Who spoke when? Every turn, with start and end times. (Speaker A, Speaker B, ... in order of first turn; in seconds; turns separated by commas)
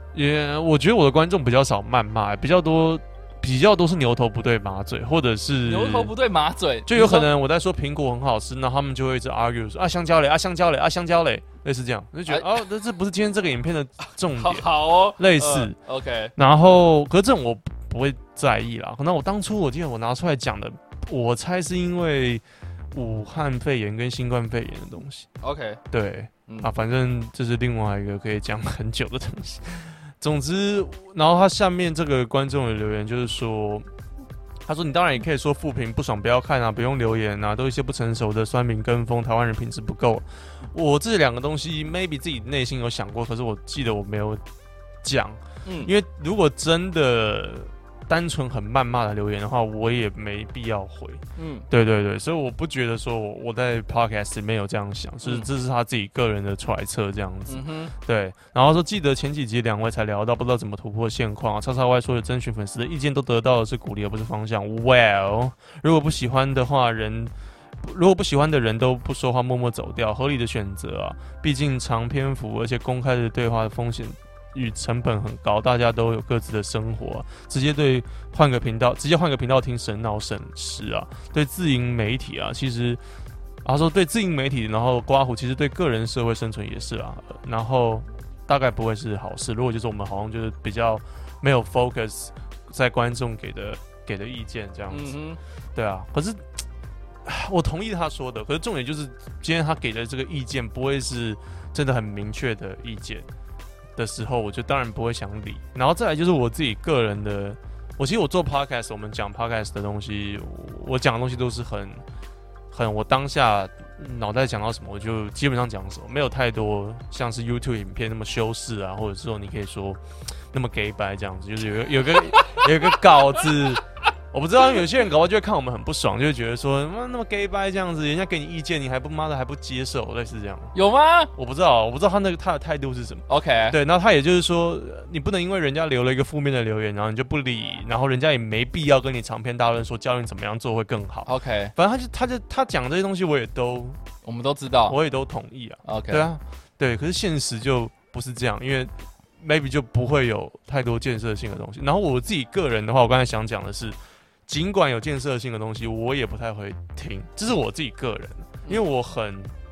Speaker A: 0.1-6.1, Speaker B: 5.7-7.3, Speaker A: 6.9-14.7, Speaker B: 14.4-16.3, Speaker A: 15.2-15.8, Speaker A: 16.4-25.3, Speaker B: 25.4-25.8, Speaker A: 25.9-33.9, Speaker A: 34.7-44.4, Speaker A: 45.0-83.0, Speaker B: 45.6-45.9, Speaker B: 51.4-51.7, Speaker B: 55.2-55.5, Speaker B: 57.5-57.9, Speaker A: 83.6-95.2, Speaker B: 94.9-95.4, Speaker A: 95.8-96.4, Speaker A: 97.2-103.3, Speaker A: 104.0-112.0, Speaker A: 112.7-130.7, Speaker B: 122.3-122.6, Speaker B: 130.7-131.3, Speaker A: 131.4-144.0, Speaker B: 133.3-133.8, Speaker B: 141.3-141.7, Speaker B: 144.2-145.0, Speaker A: 144.9-159.5, Speaker B: 145.8-146.3